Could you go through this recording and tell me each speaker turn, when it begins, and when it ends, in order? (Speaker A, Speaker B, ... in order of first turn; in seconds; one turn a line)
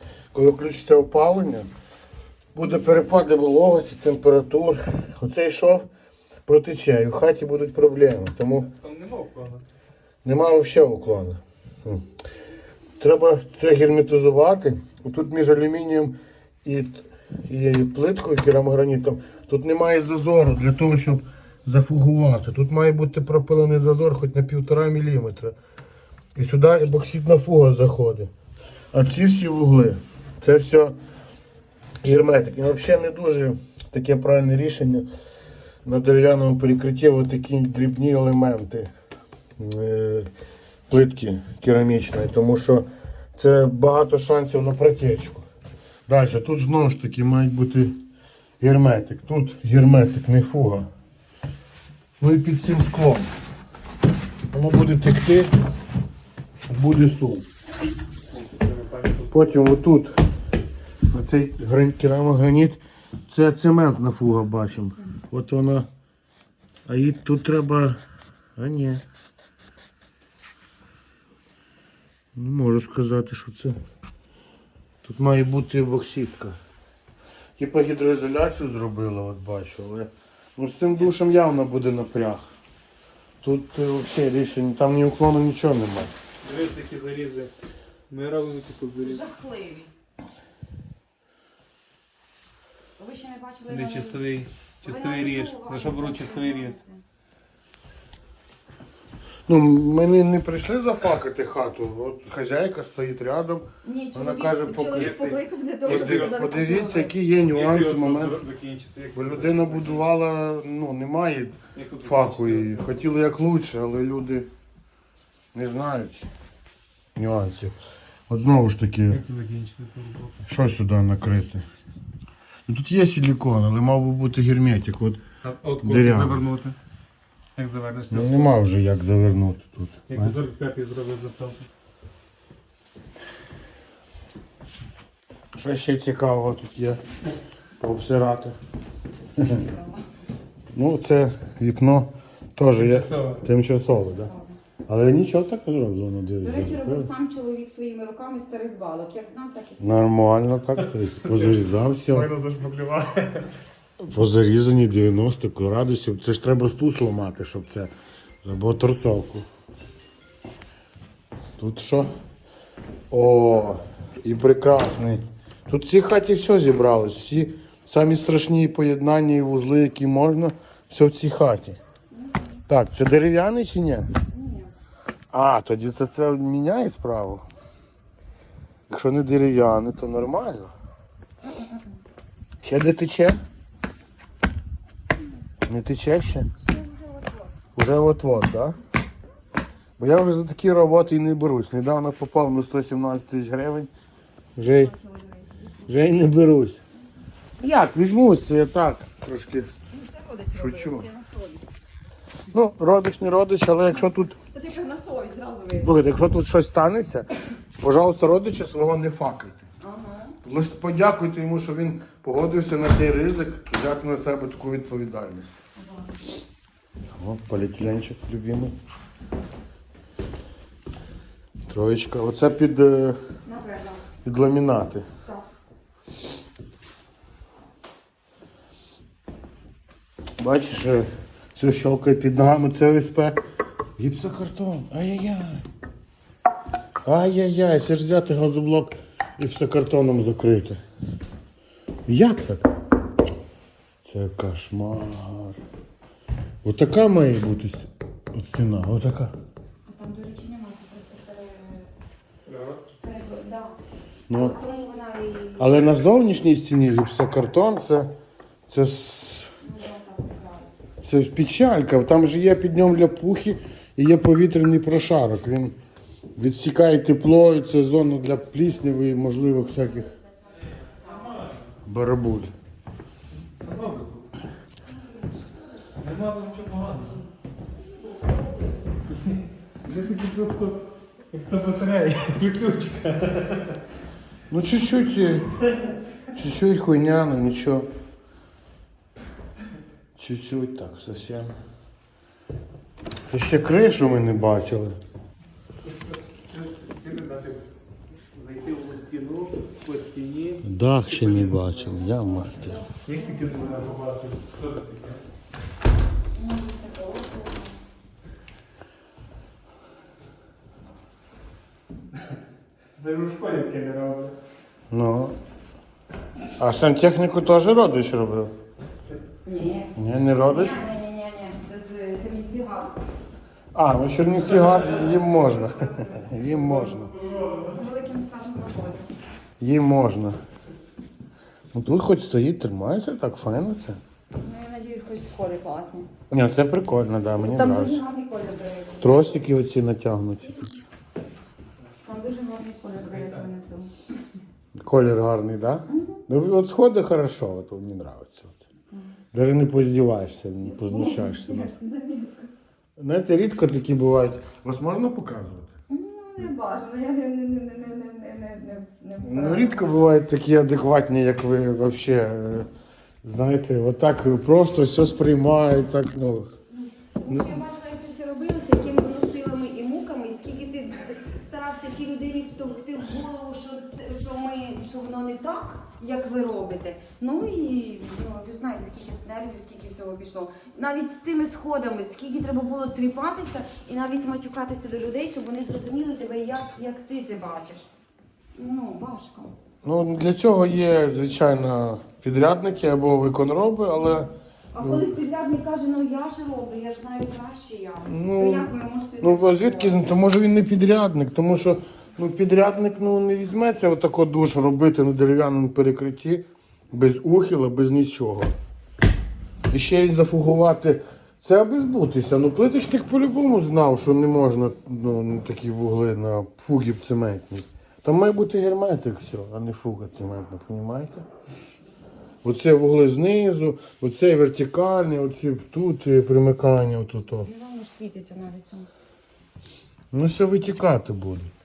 Speaker A: 0.3-1.7
Speaker A: 2.5-5.9
Speaker A: 6.5-8.7
Speaker B: 8.7-9.6
Speaker A: 10.2-12.0
Speaker A: 13.0-25.6
Speaker A: 26.4-28.3
Speaker A: 28.9-30.9
Speaker A: 32.0-35.1
Speaker A: 35.8-38.9
Speaker A: 39.6-40.3
Speaker A: 40.9-45.5
Speaker A: 46.1-48.0
Speaker A: 48.6-50.9
Speaker A: 52.2-53.3
Speaker A: 54.5-55.5
Speaker A: 56.7-57.5
Speaker B: 58.3-59.6
Speaker A: 59.3-60.1
Speaker A: 61.1-65.9
Speaker A: 66.9-68.0
Speaker A: 68.6-69.0
Speaker A: 72.3-73.8
Speaker A: 75.0-76.6
Speaker A: 77.6-82.5
Speaker A: 83.4-86.1
Speaker B: 86.4-87.5
Speaker B: 88.1-89.2
Speaker C: 89.0-89.9
Speaker C: 93.0-94.2
Speaker B: 93.7-96.8
Speaker C: 94.8-97.0
Speaker A: 99.5-105.2
Speaker C: 103.8-107.1
Speaker B: 104.7-106.6
Speaker A: 105.9-108.4
Speaker B: 107.4-110.1
Speaker A: 109.1-114.5
Speaker B: 111.8-112.9
Speaker A: 115.5-116.3
Speaker A: 117.2-117.8
Speaker A: 118.3-119.2
Speaker B: 119.1-120.4
Speaker A: 120.5-121.7
Speaker A: 122.7-125.2
Speaker B: 125.4-126.8
Speaker A: 125.8-126.4
Speaker B: 127.5-128.6
Speaker A: 128.1-130.3
Speaker B: 130.1-131.7
Speaker A: 135.5-137.0
Speaker A: 137.8-138.6
Speaker C: 139.3-140.1
Speaker A: 140.7-144.3
Speaker B: 142.7-143.4
Speaker C: 143.8-144.6
Speaker A: 144.9-147.1
Speaker C: 146.4-150.0
Speaker A: 149.8-152.3
Speaker B: 151.2-153.5
Speaker A: 154.0-157.9
Speaker A: 158.4-159.4
Speaker A: 161.6-162.1
Speaker A: 163.1-171.8
Speaker C: 172.1-172.6
Speaker A: 172.7-174.1
Speaker C: 174.3-174.7
Speaker A: 175.3-177.4
Speaker A: 178.9-180.7
Speaker A: 182.6-183.4
Speaker A: 185.7-186.5
Speaker C: 186.6-187.5
Speaker A: 187.8-188.8
Speaker A: 190.0-193.9
Speaker A: 194.6-194.9
Speaker C: 194.6-195.9
Speaker A: 195.9-196.8
Speaker A: 197.6-199.7
Speaker C: 199.9-201.7
Speaker A: 200.5-201.1
Speaker A: 202.5-204.4
Speaker C: 204.5-206.0
Speaker A: 205.8-209.7
Speaker C: 209.8-210.4
Speaker A: 210.4-215.5
Speaker C: 215.8-216.4
Speaker A: 217.1-218.8
Speaker A: 221.7-223.2
Speaker C: 223.4-224.0
Speaker A: 224.2-225.0
Speaker A: 230.4-233.4
Speaker A: 234.0-235.7
Speaker A: 237.0-240.8
Speaker A: 242.1-242.7
Speaker A: 244.0-245.6
Speaker A: 246.6-249.3
Speaker C: 249.9-251.9
Speaker B: 252.5-252.8
Speaker C: 253.0-253.8
Speaker A: 254.3-254.5
Speaker C: 254.3-255.9
Speaker A: 255.6-258.1
Speaker A: 258.7-259.5
Speaker C: 259.6-260.7
Speaker A: 261.0-265.8
Speaker A: 266.4-270.1
Speaker B: 271.0-271.6
Speaker A: 271.8-272.5
Speaker B: 273.5-274.3
Speaker B: 275.9-277.2
Speaker B: 279.8-283.8
Speaker A: 284.5-285.6
Speaker A: 286.3-287.9
Speaker A: 290.1-291.5
Speaker A: 293.3-294.9
Speaker B: 296.5-297.7
Speaker B: 298.3-302.0
Speaker A: 300.6-302.9
Speaker B: 303.0-305.2
Speaker C: 306.4-307.8
Speaker B: 312.9-314.4
Speaker A: 314.9-315.4
Speaker A: 316.6-318.5
Speaker C: 319.4-319.9
Speaker A: 319.9-320.8
Speaker C: 320.4-323.0
Speaker A: 323.7-327.1
Speaker C: 327.5-329.1
Speaker A: 329.6-330.4
Speaker A: 331.7-334.0
Speaker C: 334.4-336.1
Speaker A: 336.3-338.0
Speaker C: 337.4-339.3
Speaker A: 339.0-340.6
Speaker C: 342.0-343.9
Speaker B: 343.1-343.4
Speaker A: 344.8-348.6
Speaker C: 345.9-346.2
Speaker A: 349.3-351.7
Speaker C: 350.6-352.5
Speaker A: 353.0-355.7
Speaker C: 355.9-360.0
Speaker A: 359.2-362.7
Speaker A: 363.2-366.5
Speaker C: 367.2-387.9
Speaker A: 367.3-367.6
Speaker C: 388.6-389.5
Speaker A: 389.8-395.1
Speaker C: 394.7-400.0
Speaker A: 398.1-398.7
Speaker A: 399.2-408.5
Speaker A: 409.7-421.2
Speaker A: 422.4-427.5
Speaker C: 427.4-428.9
Speaker A: 430.1-431.5